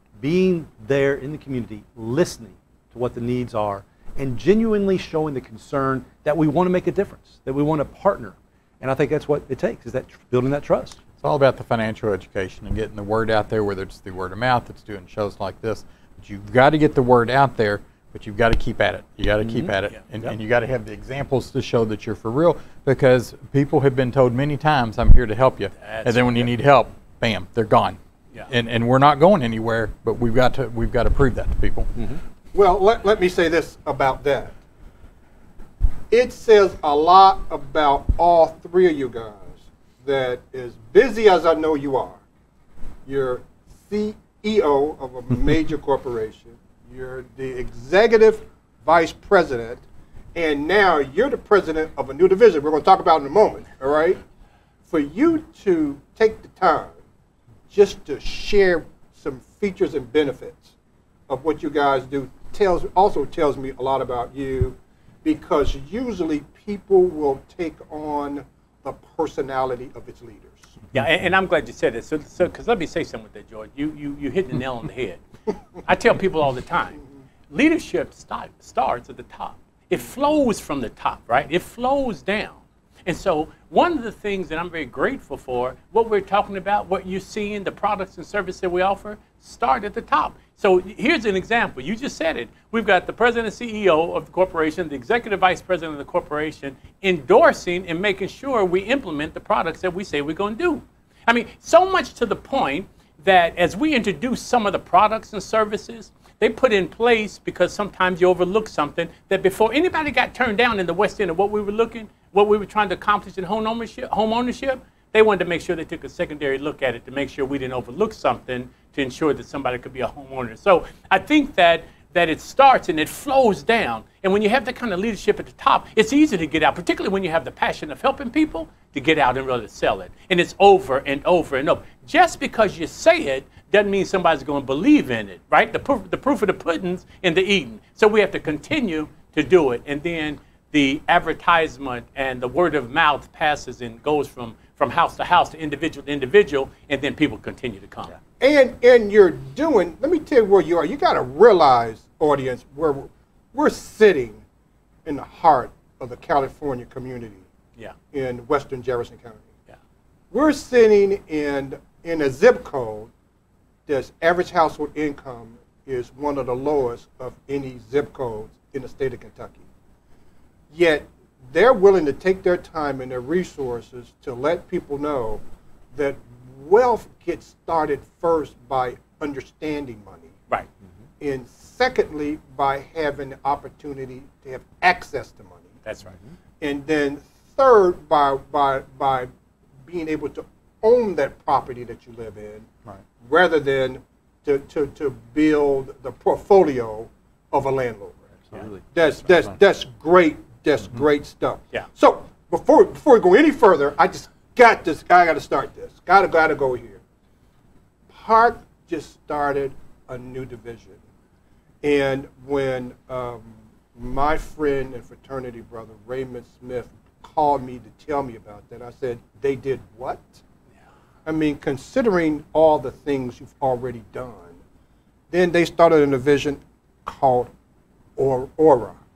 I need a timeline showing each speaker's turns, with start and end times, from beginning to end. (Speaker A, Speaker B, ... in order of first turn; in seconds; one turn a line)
Speaker A: 0.2-11.0
Speaker B: 11.2-31.9
Speaker A: 19.4-20.3
Speaker C: 25.8-26.5
Speaker A: 31.9-32.2
Speaker D: 32.5-34.5
Speaker D: 36.1-42.2
Speaker D: 43.0-49.8
Speaker D: 50.3-54.2
Speaker D: 54.9-57.0
Speaker D: 57.7-60.7
Speaker D: 61.3-70.8
Speaker C: 70.9-75.2
Speaker C: 75.8-148.1
Speaker D: 148.4-154.4
Speaker D: 155.0-157.4
Speaker D: 158.1-159.5
Speaker D: 160.3-163.1
Speaker D: 163.9-169.6
Speaker D: 170.7-175.4
Speaker D: 175.9-180.4
Speaker D: 181.2-185.8
Speaker C: 185.8-186.2
Speaker D: 186.6-189.3
Speaker D: 189.8-192.7
Speaker D: 193.2-207.0
Speaker A: 198.5-198.8
Speaker D: 208.1-211.0
Speaker D: 211.8-220.4
Speaker D: 221.2-224.6
Speaker D: 225.3-227.5
Speaker D: 228.2-229.0